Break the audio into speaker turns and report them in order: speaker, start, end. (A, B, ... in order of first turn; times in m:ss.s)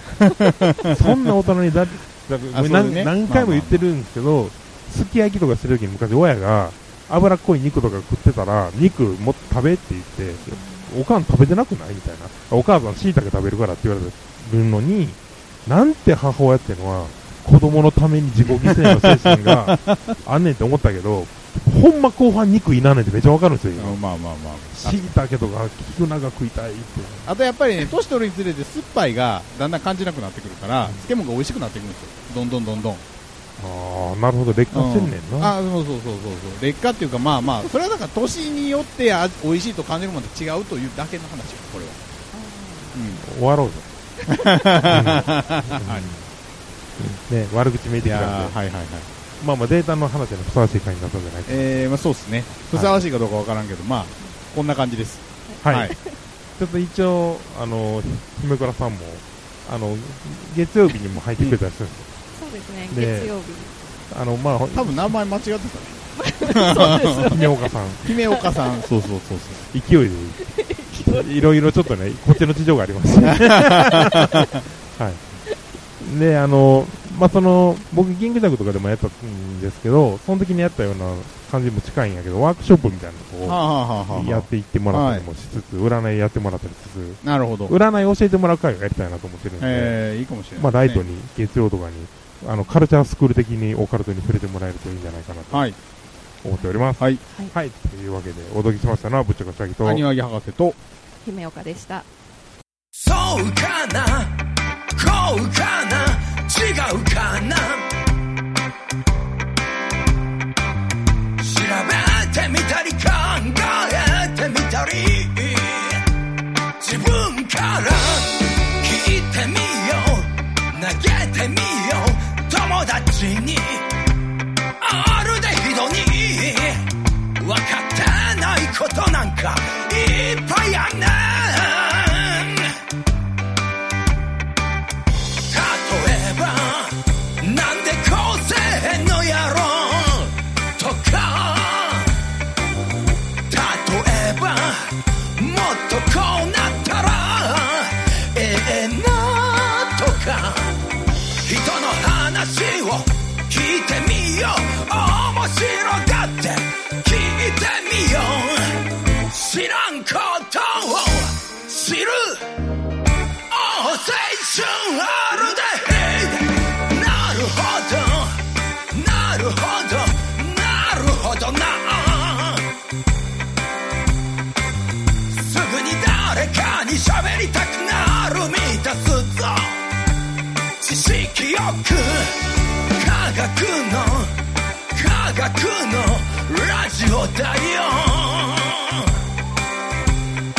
0:00.2-0:01.0 A
0:00.8-0:24.0 B
0:02.5-0:03.8 A
0:18.4-0:20.0 A
0:23.8-0:25.1 A
0:24.7-0:27.3 B
0:27.2-0:33.0 A
0:33.6-0:35.5 B
0:34.7-0:42.0 A
0:42.3-0:43.0 C
0:42.9-0:43.2 A
0:43.2-0:43.9 B
0:44.3-0:46.0 A
0:44.8-0:46.2 B
0:47.0-0:48.6 B
0:48.0-0:49.1 A
0:49.4-0:51.8 B
0:51.5-0:55.9 A
0:55.5-0:56.2 C
0:55.6-0:55.9 B
0:56.6-1:02.1 B
1:02.3-1:03.7 C
1:02.9-1:03.3 B
1:04.1-1:05.2 B
1:04.7-1:07.4 A
1:06.2-1:08.8 C
1:06.8-1:08.0 B
1:08.0-1:09.6 A
1:09.7-1:15.2 B
1:10.4-1:11.5 C
1:13.3-1:14.4 A
1:16.0-1:30.0 B
1:23.4-1:25.2 A
1:27.2-1:27.7 A
1:29.6-1:31.0 A
1:30.6-1:35.6 B
1:35.5-1:35.8 A
1:36.4-1:40.0 B
1:39.8-1:40.8 A
1:41.2-1:42.1 C
1:42.9-1:44.4 D
1:44.9-1:47.9 D
1:51.4-1:56.0 D
1:56.8-2:03.9 D
2:04.8-2:12.8 D
2:15.5-2:22.2 D
2:23.5-2:30.8 D
2:31.4-2:42.5 D
2:43.5-2:52.7 D
2:55.3-2:59.9 D
3:00.8-3:04.3 D
3:04.9-3:09.1 D